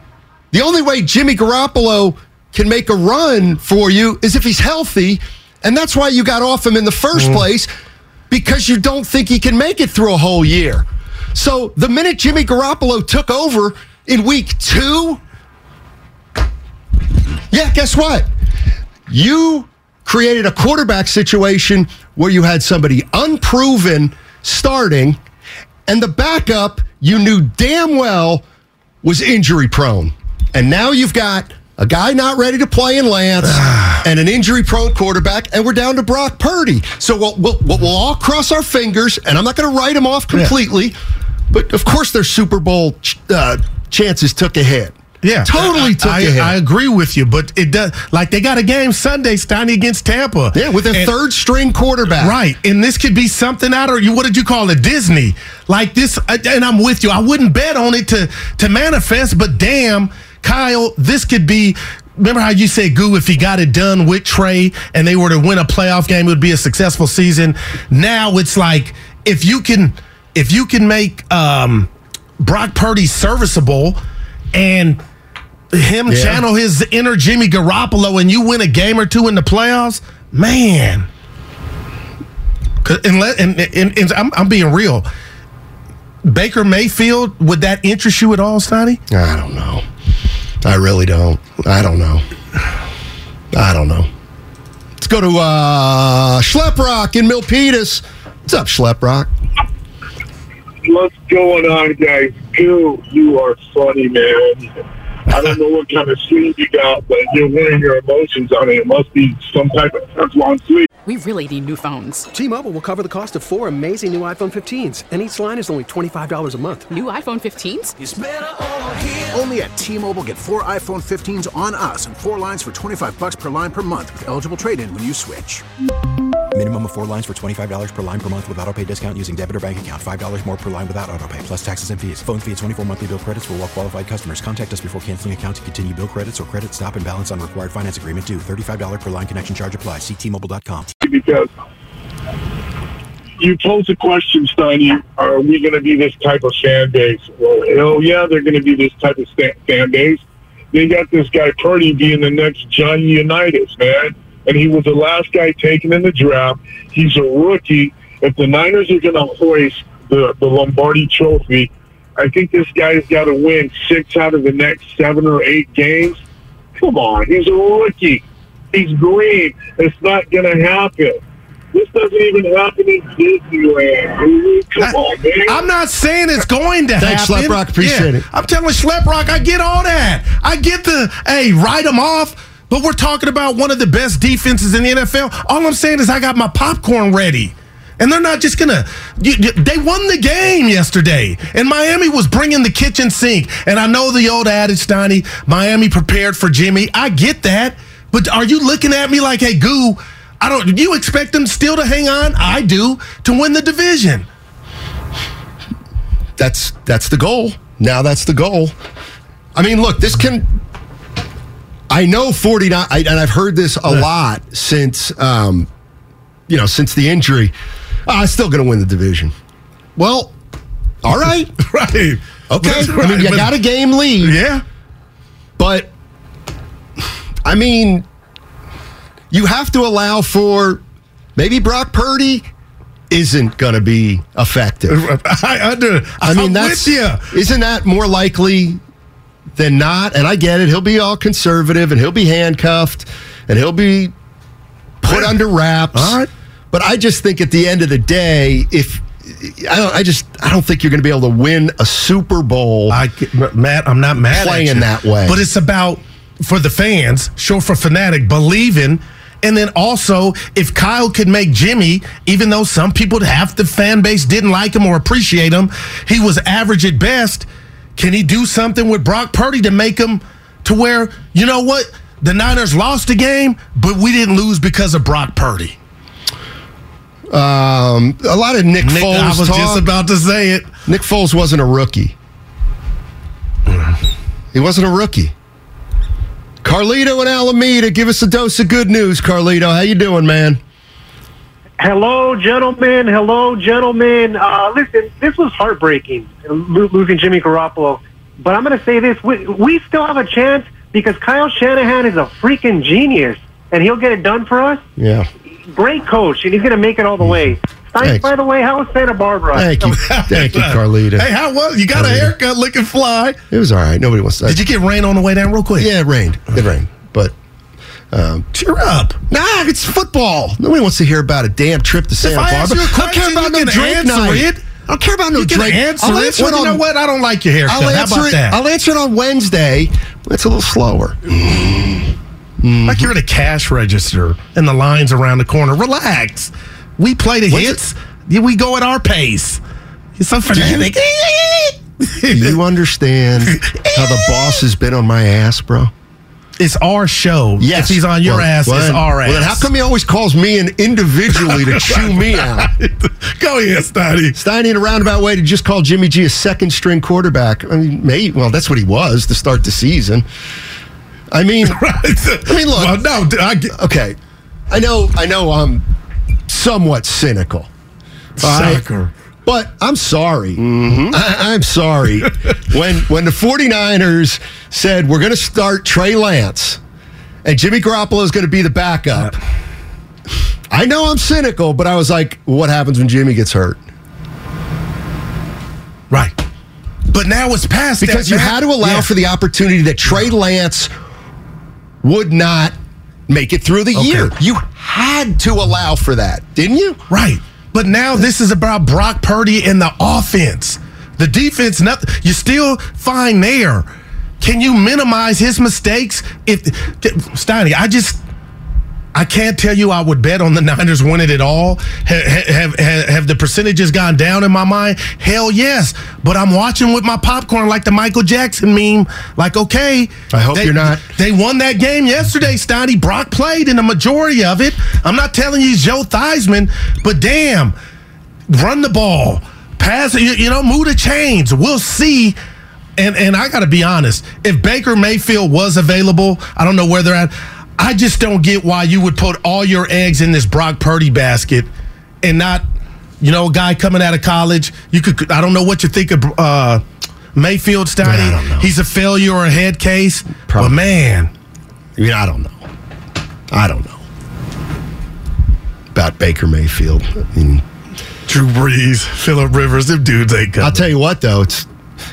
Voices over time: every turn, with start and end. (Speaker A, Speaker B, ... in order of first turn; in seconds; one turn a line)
Speaker A: 0.5-7.7
Speaker A: 8.3-15.2
Speaker A: 17.5-18.3
Speaker A: 19.1-25.2
Speaker A: 25.9-28.4
Speaker A: 29.0-41.0
Speaker B: 33.5-34.0
Speaker A: 41.5-46.6
Speaker B: 45.2-51.1
Speaker A: 50.5-52.4
Speaker B: 52.2-71.9
Speaker B: 72.4-74.0
Speaker B: 74.5-75.0
Speaker B: 75.7-81.1
Speaker A: 76.1-76.4
Speaker B: 82.8-85.1
Speaker B: 86.2-89.0
Speaker A: 89.1-89.8
Speaker A: 90.6-92.2
Speaker A: 93.5-94.1
Speaker A: 95.0-99.3
Speaker C: 100.8-104.8
Speaker C: 105.3-110.9
Speaker D: 111.0-112.3
Speaker E: 112.3-116.9
Speaker D: 116.9-118.0
Speaker F: 118.0-118.3
Speaker F: 119.2-125.6
Speaker G: 126.5-140.9
Speaker C: 141.0-141.5
Speaker C: 143.4-166.2
Speaker C: 166.8-171.2
Speaker C: 171.7-175.7
Speaker B: 174.8-204.3
Speaker A: 177.0-178.2
Speaker A: 206.4-208.8
Speaker A: 209.6-210.6
Speaker A: 211.9-215.7
Speaker A: 216.5-217.5
Speaker A: 218.1-219.3
Speaker A: 220.0-220.3
Speaker A: 221.0-221.5
Speaker B: 221.6-223.5
Speaker A: 222.5-224.4
Speaker B: 224.2-224.6
Speaker A: 225.6-225.9
Speaker A: 227.4-228.1
Speaker A: 229.3-230.8
Speaker A: 231.4-232.4
Speaker A: 233.1-235.0
Speaker B: 234.9-237.2
Speaker A: 236.2-238.8
Speaker A: 239.6-244.1
Speaker A: 245.0-246.2
Speaker B: 245.1-245.4
Speaker B: 245.9-246.3
Speaker A: 246.7-253.0
Speaker B: 252.9-275.8
Speaker A: 254.3-255.4
Speaker A: 277.3-279.9
Speaker B: 278.8-280.7
Speaker A: 280.9-282.1
Speaker A: 284.5-285.3
Speaker A: 286.6-290.6
Speaker H: 291.8-304.8
Speaker A: 305.0-305.3
Speaker H: 305.7-309.9
Speaker A: 307.2-308.3
Speaker A: 309.5-311.3
Speaker B: 309.9-313.4
Speaker A: 311.9-312.3
Speaker A: 313.5-314.6
Speaker B: 314.5-315.9
Speaker A: 315.8-317.3
Speaker A: 318.1-318.5
Speaker B: 318.5-319.2
Speaker A: 319.3-326.8
Speaker B: 322.2-324.6
Speaker B: 325.4-328.6
Speaker A: 327.7-333.1
Speaker B: 332.9-339.6
Speaker A: 337.5-337.8
Speaker B: 340.2-342.6
Speaker A: 340.5-341.0
Speaker A: 342.3-345.9
Speaker B: 343.4-344.6
Speaker B: 346.6-349.7
Speaker A: 347.6-352.7
Speaker B: 351.4-354.4
Speaker A: 354.3-360.2
Speaker A: 361.3-361.8
Speaker B: 361.6-363.7
Speaker A: 362.4-363.0
Speaker A: 363.7-364.2
Speaker A: 364.7-365.9
Speaker A: 366.5-367.7
Speaker B: 368.4-369.1
Speaker A: 368.4-368.8
Speaker A: 369.4-376.8
Speaker A: 377.4-379.4
Speaker A: 380.7-383.8
Speaker B: 387.1-389.1
Speaker A: 388.0-390.9
Speaker A: 392.0-392.8
Speaker A: 393.3-397.0
Speaker B: 393.9-394.3
Speaker B: 397.1-403.9
Speaker B: 404.4-408.2
Speaker B: 409.1-427.7
Speaker A: 420.3-421.0
Speaker B: 428.5-432.4
Speaker B: 433.0-441.7
Speaker B: 442.2-442.6
Speaker B: 443.2-446.8
Speaker B: 447.4-451.3
Speaker A: 448.0-448.7
Speaker A: 450.5-450.8
Speaker A: 452.0-452.6
Speaker A: 453.5-454.0
Speaker A: 455.9-457.6
Speaker B: 458.3-460.9
Speaker A: 460.6-461.7